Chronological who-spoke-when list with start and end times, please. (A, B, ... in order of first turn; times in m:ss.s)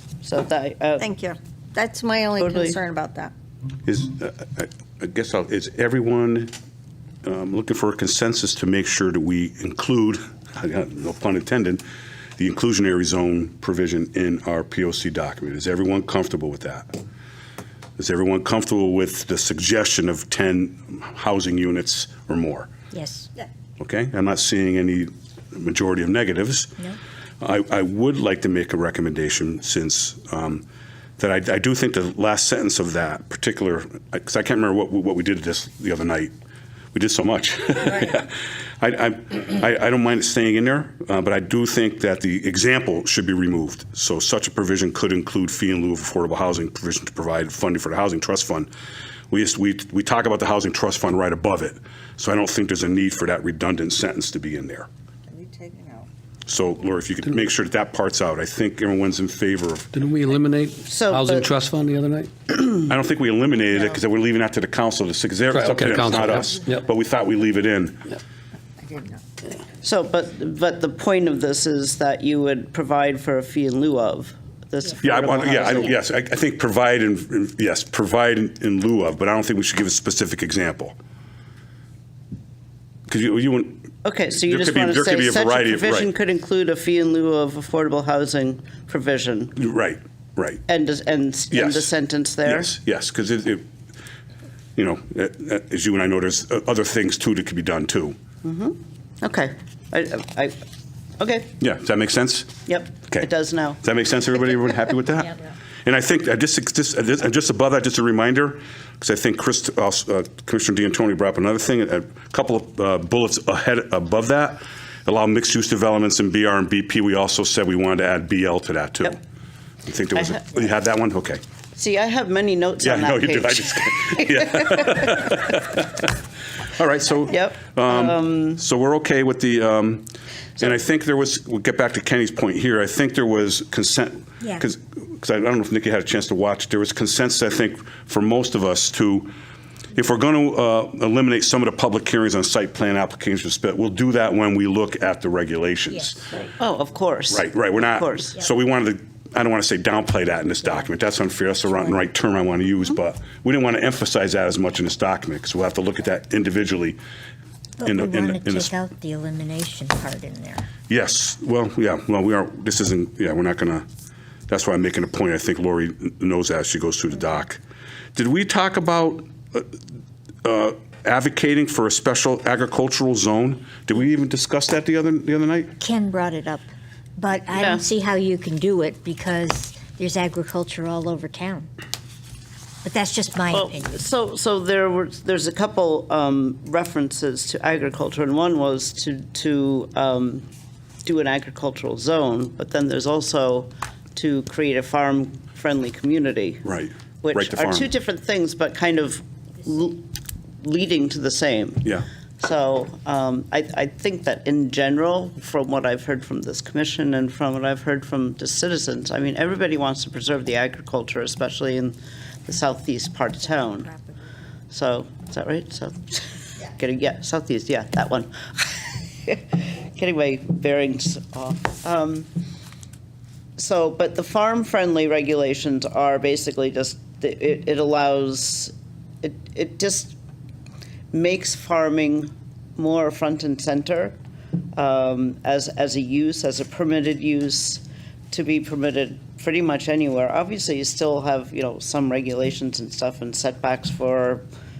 0:00.2-0:01.1 A
0:01.0-0:03.3 B
0:02.4-0:02.8 A
0:03.8-0:06.5 C
0:07.2-0:11.8 C
0:12.4-0:16.9 C
0:18.0-0:22.7 C
0:22.9-0:23.3 D
0:23.8-0:26.8 C
0:27.4-0:30.6 C
0:31.2-0:36.3 C
0:36.9-0:48.7 C
0:49.3-0:54.9 C
0:55.3-0:56.1 B
0:56.5-0:59.9 C
0:59.9-1:02.3 E
1:00.8-1:01.5 A
1:02.5-1:08.1 C
1:05.5-1:06.8 E
1:08.8-1:09.2 B
1:09.8-1:16.0 A
1:15.0-1:20.9 C
1:23.1-1:26.1 C
1:24.0-1:29.6 A
1:29.6-1:30.6 C
1:30.7-1:32.7 A
1:31.5-1:31.9 C
1:32.4-1:33.6 C
1:34.8-1:38.2 C
1:38.4-1:40.6 A
1:41.2-1:41.5 A
1:41.6-1:42.6 C
1:42.6-1:43.8 A
1:43.8-1:59.2 C
1:59.8-2:01.4 C
2:00.1-2:00.4 A
2:01.8-2:04.8 A
2:02.8-2:06.2 C
2:06.7-2:10.1 C
2:07.3-2:08.6 A
2:10.6-2:19.3 C
2:19.9-2:26.4 C
2:26.6-2:28.4 A
2:27.3-2:37.0 C
2:37.8-2:40.7 D
2:37.8-2:38.7 C
2:40.9-2:43.8 C
2:44.5-2:47.6 C
2:48.1-2:49.7 C
2:50.4-2:55.7 C
2:55.8-3:01.7 D
2:57.5-2:57.8 A
3:02.8-3:04.0 D
3:03.5-3:10.4 A
3:11.0-3:16.6 A
3:16.6-3:17.9 C
3:17.2-3:20.0 A
3:20.6-3:33.9 A
3:34.7-3:42.3 A
3:43.6-3:50.2 A
3:51.1-3:54.2 A
3:54.8-4:04.4 A